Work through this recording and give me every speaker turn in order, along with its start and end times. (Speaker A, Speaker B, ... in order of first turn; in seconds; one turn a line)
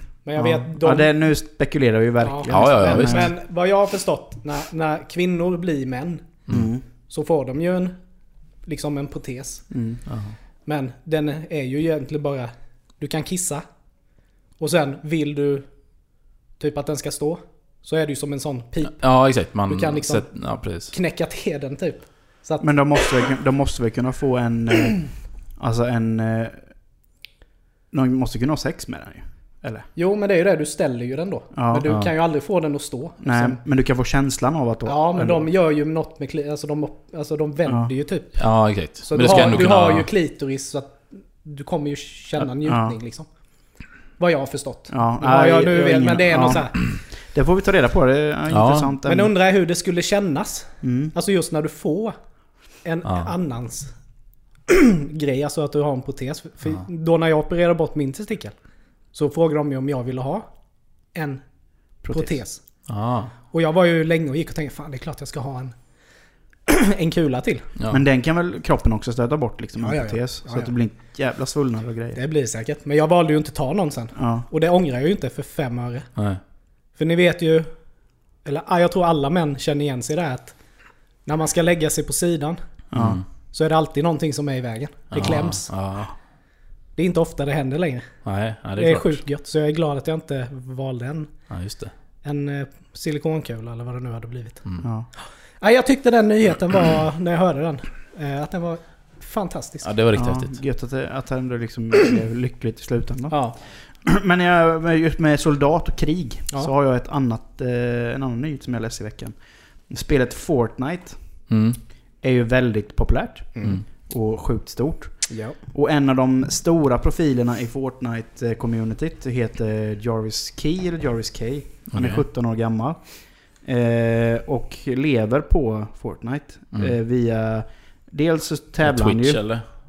Speaker A: 0.2-1.1
Speaker B: 0.4-3.3
Speaker A: 2.2-6.4
Speaker C: 2.5-3.3
Speaker B: 6.5-6.8
Speaker A: 7.1-8.0
Speaker A: 8.7-9.7
Speaker B: 9.7-10.0
Speaker C: 10.1-10.3
Speaker A: 10.7-13.6
Speaker A: 14.6-15.7
Speaker A: 16.6-23.2
Speaker C: 19.0-20.9
Speaker B: 22.6-26.7
Speaker B: 27.9-29.9
Speaker A: 30.0-33.6
Speaker B: 31.6-32.0
Speaker B: 33.2-35.5
Speaker A: 34.9-43.3
Speaker B: 37.7-37.9
Speaker C: 38.4-40.1
Speaker B: 42.6-43.0
Speaker A: 44.2-46.8
Speaker B: 44.9-49.3
Speaker C: 48.5-49.0
Speaker A: 49.1-52.2
Speaker B: 50.8-51.1
Speaker A: 52.8-53.9
Speaker C: 53.0-53.3
Speaker A: 54.7-58.5
Speaker A: 59.1-60.5
Speaker A: 61.1-61.4
Speaker B: 62.0-62.4
Speaker A: 62.1-62.6
Speaker C: 62.9-63.3
Speaker A: 63.5-65.7
Speaker A: 66.7-67.7
Speaker B: 67.9-72.2
Speaker A: 69.8-70.7
Speaker A: 72.2-76.1
Speaker B: 74.2-74.5
Speaker A: 77.0-77.7
Speaker A: 78.5-80.5
Speaker A: 81.3-82.6
Speaker B: 82.9-83.2
Speaker C: 83.0-83.2
Speaker A: 83.5-85.7
Speaker C: 85.1-86.1
Speaker A: 87.0-88.2
Speaker C: 88.2-89.2
Speaker A: 88.8-91.3
Speaker C: 91.5-91.9
Speaker A: 92.2-94.6
Speaker B: 94.8-95.1
Speaker A: 95.6-99.9
Speaker C: 99.8-100.6
Speaker B: 100.1-111.2
Speaker A: 103.3-103.6
Speaker C: 111.5-111.8
Speaker B: 112.2-129.4
Speaker A: 113.6-113.8
Speaker A: 115.3-115.6
Speaker C: 121.9-122.2
Speaker C: 128.8-129.7